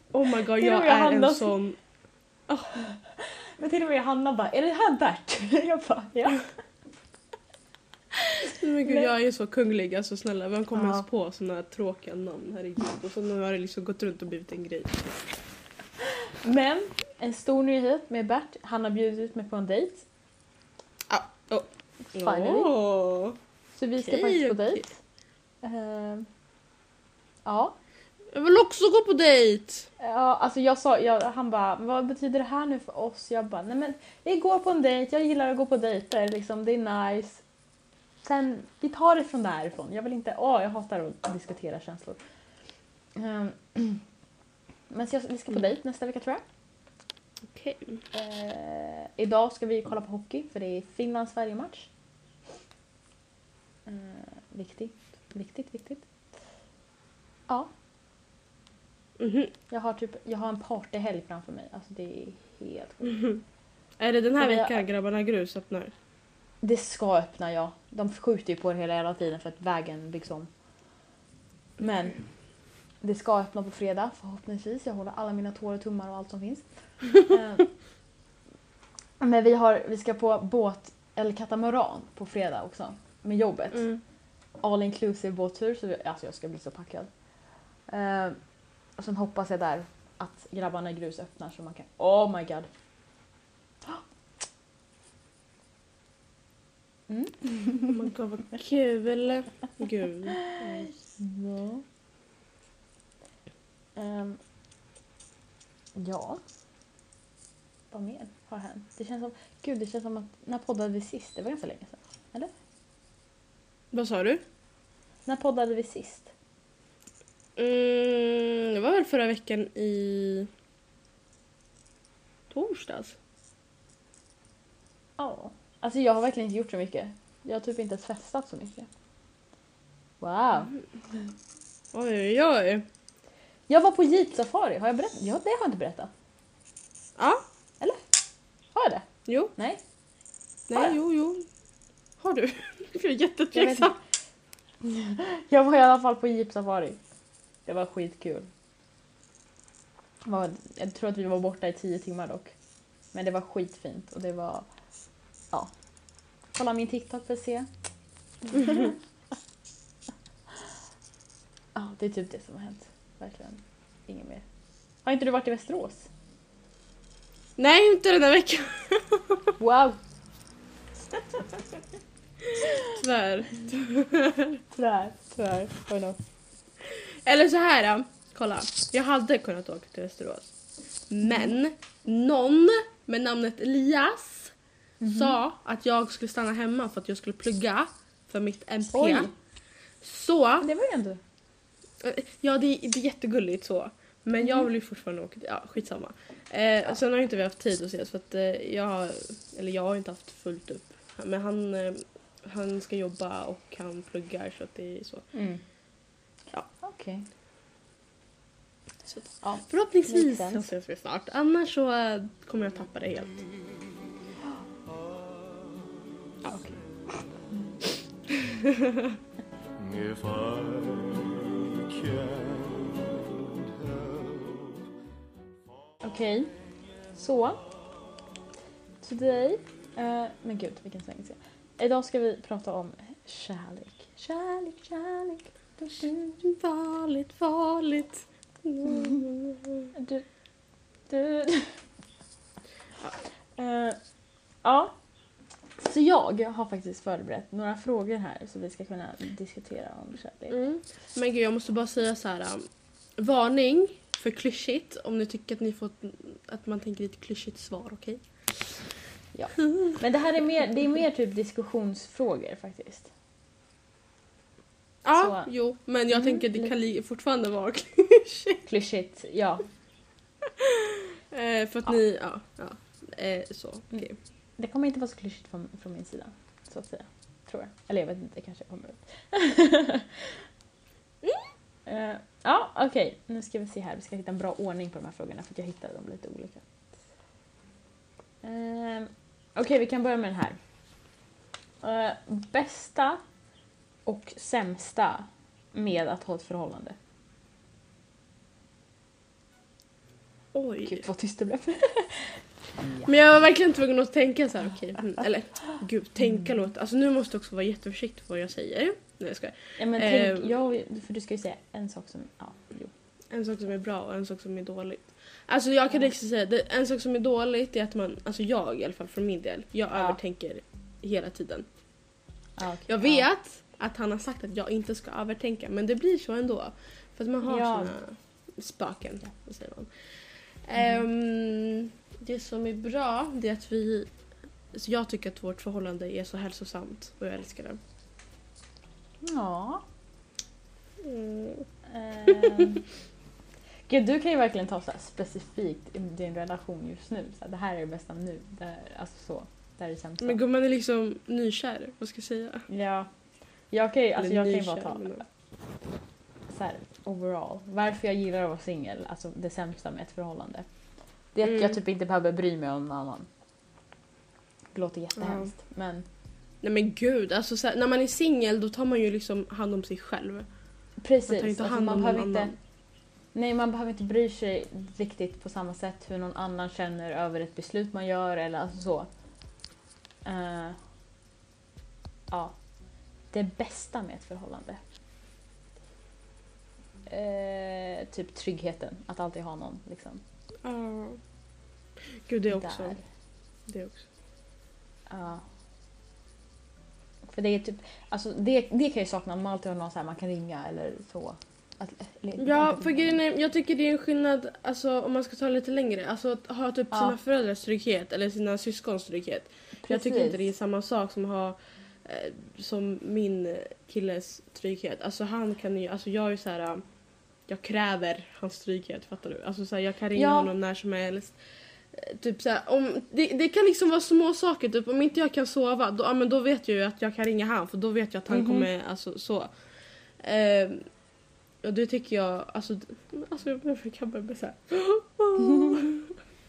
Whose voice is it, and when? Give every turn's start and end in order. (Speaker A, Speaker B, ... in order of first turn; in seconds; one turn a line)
Speaker A: 0.1-1.8
Speaker B: 0.6-1.5
Speaker B: 2.7-6.5
Speaker B: 8.4-9.1
Speaker A: 8.6-15.2
Speaker B: 10.7-11.1
Speaker B: 16.4-20.1
Speaker A: 21.1-23.4
Speaker B: 22.1-22.7
Speaker B: 23.8-25.0
Speaker A: 24.0-24.9
Speaker B: 25.6-26.3
Speaker B: 27.4-27.7
Speaker A: 28.3-29.9
Speaker B: 30.0-37.4
Speaker B: 38.2-42.2
Speaker B: 43.1-44.0
Speaker B: 44.9-46.4
Speaker A: 47.5-48.0
Speaker B: 48.1-51.9
Speaker B: 53.9-56.1
Speaker A: 59.2-59.5
Speaker B: 59.7-63.2
Speaker A: 64.0-65.9
Speaker B: 64.4-64.8
Speaker B: 66.6-70.5
Speaker B: 71.8-72.2
Speaker B: 73.0-77.7
Speaker B: 79.2-83.9
Speaker A: 83.7-84.0
Speaker B: 84.6-87.1
Speaker B: 87.9-88.4
Speaker B: 89.0-92.7
Speaker B: 97.1-98.0
Speaker A: 97.9-100.9
Speaker B: 100.5-101.8
Speaker B: 104.0-104.4
Speaker B: 105.9-106.4
Speaker B: 107.9-112.5
Speaker A: 113.9-114.4
Speaker B: 115.2-116.3
Speaker A: 117.6-120.5
Speaker A: 122.5-123.2
Speaker B: 125.2-128.9
Speaker B: 130.2-130.7
Speaker A: 131.9-132.8
Speaker B: 133.7-136.1
Speaker A: 137.2-137.4
Speaker B: 137.8-138.0
Speaker B: 138.7-139.8
Speaker A: 139.3-139.5
Speaker A: 140.7-141.4
Speaker A: 142.2-143.9
Speaker B: 143.5-143.9
Speaker B: 144.8-147.0
Speaker B: 147.6-148.5
Speaker B: 150.2-152.5
Speaker B: 153.1-154.7
Speaker B: 156.5-157.7
Speaker B: 158.5-159.0
Speaker A: 158.6-158.9
Speaker B: 161.7-164.4
Speaker B: 165.0-166.1
Speaker A: 167.6-169.5
Speaker B: 169.6-170.0
Speaker A: 172.4-174.6
Speaker B: 174.7-176.2
Speaker A: 176.8-180.5
Speaker A: 181.1-184.5
Speaker B: 181.2-181.6
Speaker B: 185.0-185.4
Speaker A: 185.1-189.3
Speaker B: 188.9-189.3
Speaker A: 190.0-190.7
Speaker B: 190.6-191.2
Speaker A: 192.0-205.3
Speaker B: 194.4-194.7
Speaker B: 205.3-205.6
Speaker B: 206.8-207.2
Speaker A: 209.1-213.4
Speaker B: 209.4-210.7
Speaker B: 216.4-217.6
Speaker A: 218.4-219.1
Speaker C: 219.8-223.1
Speaker C: 223.8-224.4
Speaker B: 226.0-226.5
Speaker B: 227.1-227.6
Speaker B: 229.0-236.4
Speaker A: 236.4-239.9
Speaker B: 238.8-239.2
Speaker B: 239.9-240.3
Speaker B: 241.1-241.8
Speaker B: 243.6-244.0
Speaker B: 244.6-244.9
Speaker B: 245.8-250.5
Speaker A: 250.5-258.9
Speaker B: 259.3-263.1
Speaker A: 265.0-268.6
Speaker B: 265.1-265.5
Speaker B: 266.1-266.7
Speaker B: 268.6-269.6
Speaker A: 271.3-274.2
Speaker B: 274.6-280.5
Speaker B: 281.9-286.7
Speaker B: 288.4-290.6
Speaker B: 291.8-293.2
Speaker B: 294.1-297.0
Speaker A: 300.5-301.1
Speaker B: 300.8-303.1
Speaker A: 303.1-310.5
Speaker B: 309.8-312.9
Speaker A: 313.3-321.6
Speaker B: 322.6-323.3
Speaker A: 322.9-334.1
Speaker B: 327.4-327.9
Speaker B: 330.8-331.0
Speaker A: 334.7-337.8
Speaker B: 339.2-339.8
Speaker A: 341.0-341.7
Speaker B: 341.9-342.8
Speaker A: 342.3-342.7
Speaker B: 343.9-350.4
Speaker A: 350.2-352.7
Speaker B: 352.7-353.1
Speaker B: 353.7-355.2
Speaker A: 354.1-355.2
Speaker B: 356.5-360.7
Speaker B: 361.3-363.3
Speaker A: 361.4-361.8
Speaker B: 364.7-366.0
Speaker A: 365.1-365.5
Speaker A: 366.6-370.5
Speaker B: 371.0-372.6
Speaker A: 371.3-372.5
Speaker B: 373.3-379.1
Speaker B: 380.2-380.8
Speaker B: 382.3-382.6
Speaker B: 383.3-384.8
Speaker B: 387.1-390.2
Speaker A: 390.6-391.2
Speaker A: 392.2-393.0
Speaker B: 392.5-393.0
Speaker A: 393.7-394.1
Speaker B: 395.1-395.4
Speaker B: 397.2-403.2
Speaker A: 402.4-416.8
Speaker B: 406.9-407.2
Speaker B: 409.8-410.4
Speaker A: 417.5-421.4
Speaker B: 420.1-420.5
Speaker A: 421.9-429.5
Speaker B: 428.3-428.7
Speaker A: 430.2-430.9
Speaker A: 431.6-436.1
Speaker B: 435.4-435.8